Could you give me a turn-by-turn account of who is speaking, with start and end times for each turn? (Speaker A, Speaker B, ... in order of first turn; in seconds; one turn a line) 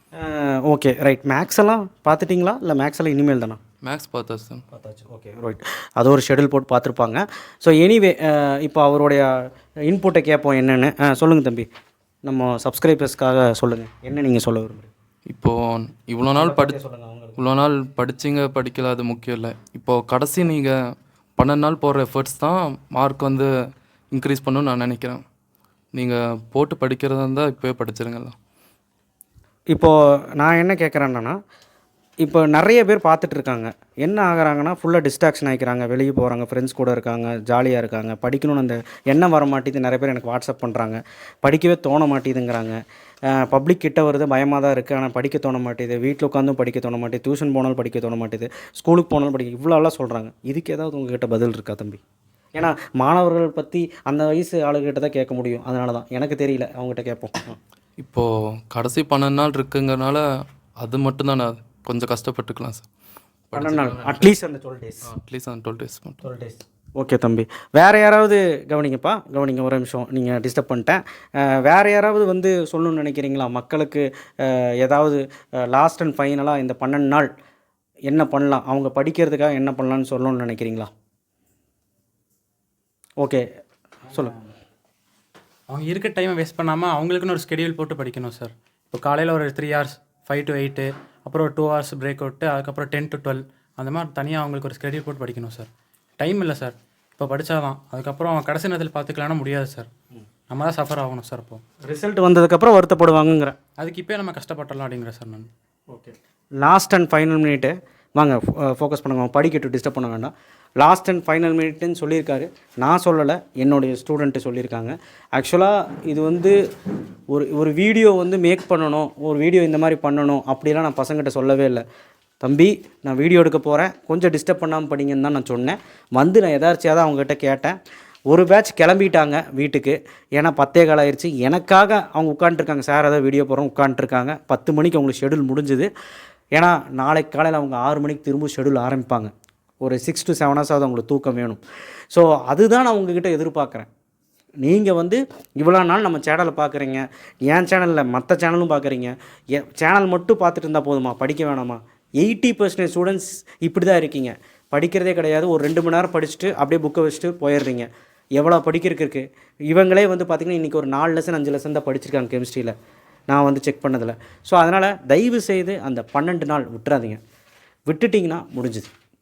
Speaker A: 0.2-3.6
Speaker B: 3.8-4.6
Speaker A: 4.7-11.7
Speaker A: 12.2-14.9
Speaker B: 15.3-16.8
Speaker A: 16.4-17.4
Speaker B: 17.4-20.8
Speaker B: 21.4-23.5
Speaker B: 24.1-25.2
Speaker B: 25.9-28.4
Speaker A: 29.7-31.4
Speaker A: 32.2-52.0
Speaker A: 52.5-57.6
Speaker B: 58.0-60.2
Speaker B: 60.8-62.9
Speaker B: 63.5-64.3
Speaker A: 63.5-65.0
Speaker B: 65.1-66.2
Speaker A: 66.2-77.3
Speaker A: 78.1-80.9
Speaker C: 85.7-99.9
Speaker C: 100.5-101.6
Speaker A: 101.8-103.5
Speaker C: 103.8-105.5
Speaker A: 105.9-116.6
Speaker A: 117.3-121.8
Speaker A: 122.4-127.8
Speaker A: 128.3-135.9
Speaker A: 136.5-141.6
Speaker A: 142.1-143.9
Speaker A: 144.6-162.7
Speaker A: 163.3-167.2
Speaker A: 167.9-168.9